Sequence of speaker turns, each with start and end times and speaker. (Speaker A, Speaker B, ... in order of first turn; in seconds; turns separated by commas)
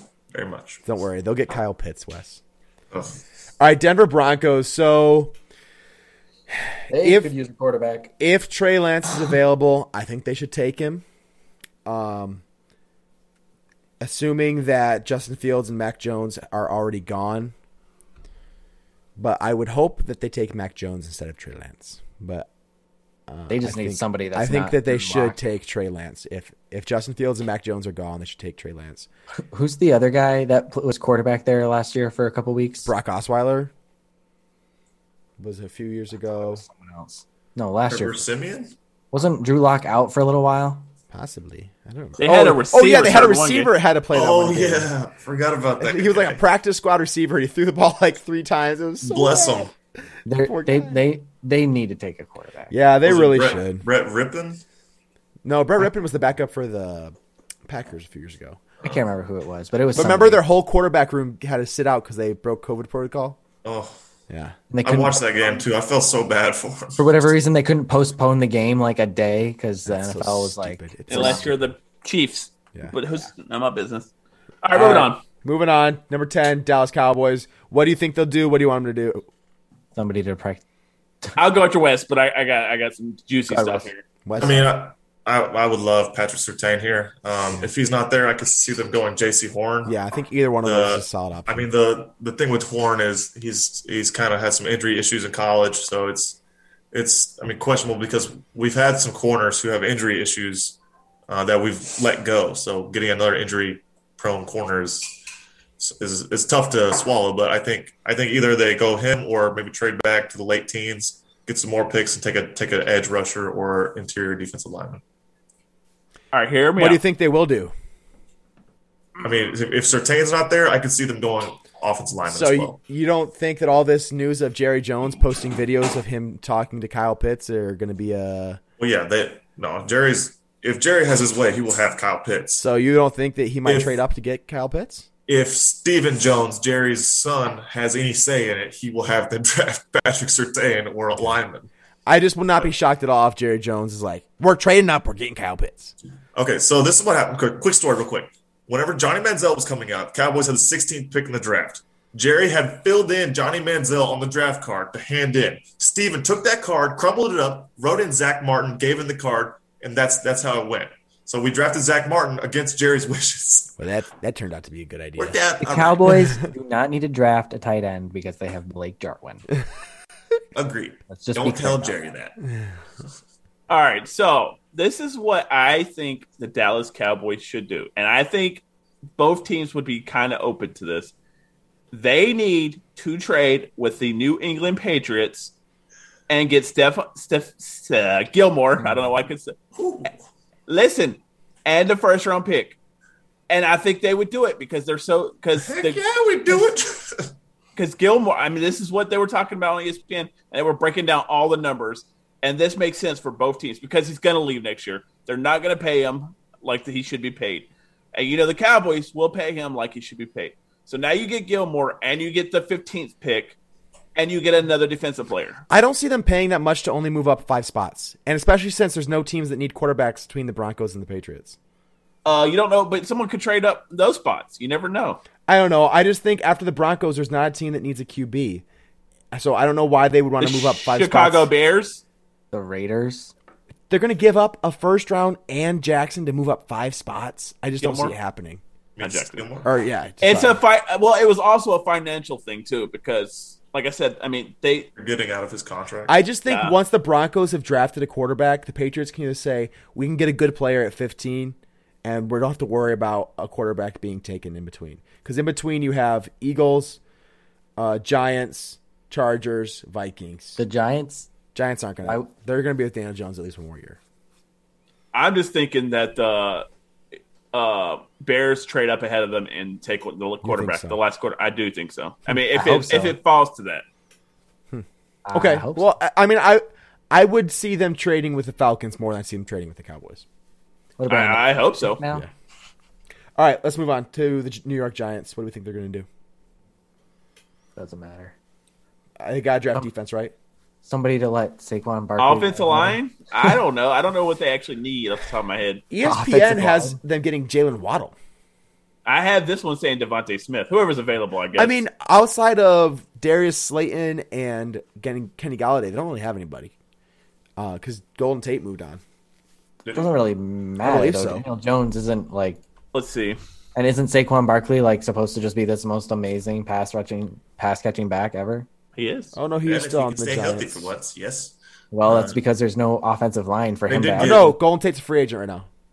Speaker A: 0.3-0.8, Speaker B: 0.8-2.4, Speaker A: 2.9-3.2, Speaker B: 3.6-5.3, Speaker B: 6.7-7.3, Speaker C: 6.9-8.1, Speaker B: 8.2-11.0, Speaker B: 11.8-12.4, Speaker B: 14.0-17.5, Speaker B: 19.2-22.5, Speaker B: 23.3-29.1, Speaker C: 23.5-25.4, Speaker C: 29.5-32.9, Speaker B: 32.8-33.7, Speaker B: 35.4-36.6, Speaker C: 36.4-38.2, Speaker A: 37.9-38.7, Speaker C: 39.1-40.9, Speaker B: 41.1-44.9, Speaker D: 42.2-43.7, Speaker A: 44.1-46.4, Speaker B: 45.8-49.7, Speaker A: 49.0-49.7, Speaker C: 50.2-52.7, Speaker B: 50.4-51.0, Speaker B: 52.7-53.8, Speaker A: 53.0-54.6, Speaker B: 55.4-57.1, Speaker B: 57.7-58.6, Speaker C: 58.8-60.4, Speaker B: 59.9-63.4, Speaker A: 63.6-64.0, Speaker B: 64.3-64.6, Speaker C: 64.7-65.2, Speaker A: 64.8-67.3, Speaker C: 67.0-71.5, Speaker B: 69.8-71.7, Speaker D: 71.1-74.1, Speaker D: 74.6-75.2, Speaker B: 74.7-79.2, Speaker C: 79.9-80.6, Speaker D: 81.3-84.0, Speaker C: 83.5-83.9, Speaker B: 84.2-84.7, Speaker A: 84.4-89.9, Speaker B: 89.8-91.7, Speaker A: 90.6-96.4, Speaker A: 96.9-105.2, Speaker A: 105.8-115.0, Speaker D: 116.3-117.0, Speaker B: 116.8-117.7, Speaker A: 119.2-122.8, Speaker B: 122.2-128.6, Speaker A: 128.8-132.6, Speaker B: 132.6-135.1, Speaker A: 133.7-134.0, Speaker A: 135.3-141.7, Speaker B: 142.1-145.9, Speaker A: 146.3-163.8, Speaker B: 163.8-165.4, Speaker A: 165.2-166.0, Speaker C: 165.6-169.5, Speaker A: 170.5-172.3, Speaker C: 171.1-172.0, Speaker D: 173.7-178.6, Speaker D: 179.2-181.1, Speaker D: 181.9-185.5, Speaker D: 186.3-189.6, Speaker A: 189.7-190.1, Speaker D: 190.7-192.8, Speaker D: 193.5-196.0, Speaker A: 195.6-197.3, Speaker D: 197.8-213.6, Speaker D: 214.2-215.6, Speaker B: 215.7-221.6, Speaker D: 222.2-225.2, Speaker B: 225.5-228.6, Speaker B: 229.3-231.5, Speaker D: 230.4-232.0, Speaker C: 232.5-233.3, Speaker B: 233.9-238.6, Speaker D: 237.8-238.1, Speaker A: 238.9-239.7, Speaker D: 239.0-239.4, Speaker B: 239.6-240.6, Speaker D: 240.2-244.9, Speaker A: 244.9-246.2, Speaker B: 246.1-257.0, Speaker D: 246.5-246.7, Speaker B: 257.8-260.6, Speaker C: 260.6-261.3, Speaker B: 261.5-264.0, Speaker D: 265.1-266.6, Speaker D: 267.5-273.8, Speaker B: 270.4-271.0, Speaker C: 272.5-273.1, Speaker B: 274.7-280.2, Speaker C: 275.2-275.9, Speaker C: 281.0-282.2, Speaker D: 281.1-282.0, Speaker B: 283.4-286.1, Speaker C: 287.8-288.3, Speaker B: 289.2-290.3, Speaker C: 290.8-293.0, Speaker D: 292.2-295.8, Speaker B: 295.9-298.1, Speaker C: 296.0-297.0, Speaker D: 299.1-301.8, Speaker B: 301.6-306.7, Speaker B: 307.6-309.0, Speaker A: 309.8-310.1, Speaker C: 309.9-312.6, Speaker B: 310.8-311.4, Speaker D: 312.9-313.4, Speaker C: 313.7-318.7, Speaker D: 319.0-319.3, Speaker B: 319.3-320.9, Speaker A: 319.6-322.4, Speaker C: 321.9-324.5, Speaker A: 323.9-324.5, Speaker B: 324.2-325.7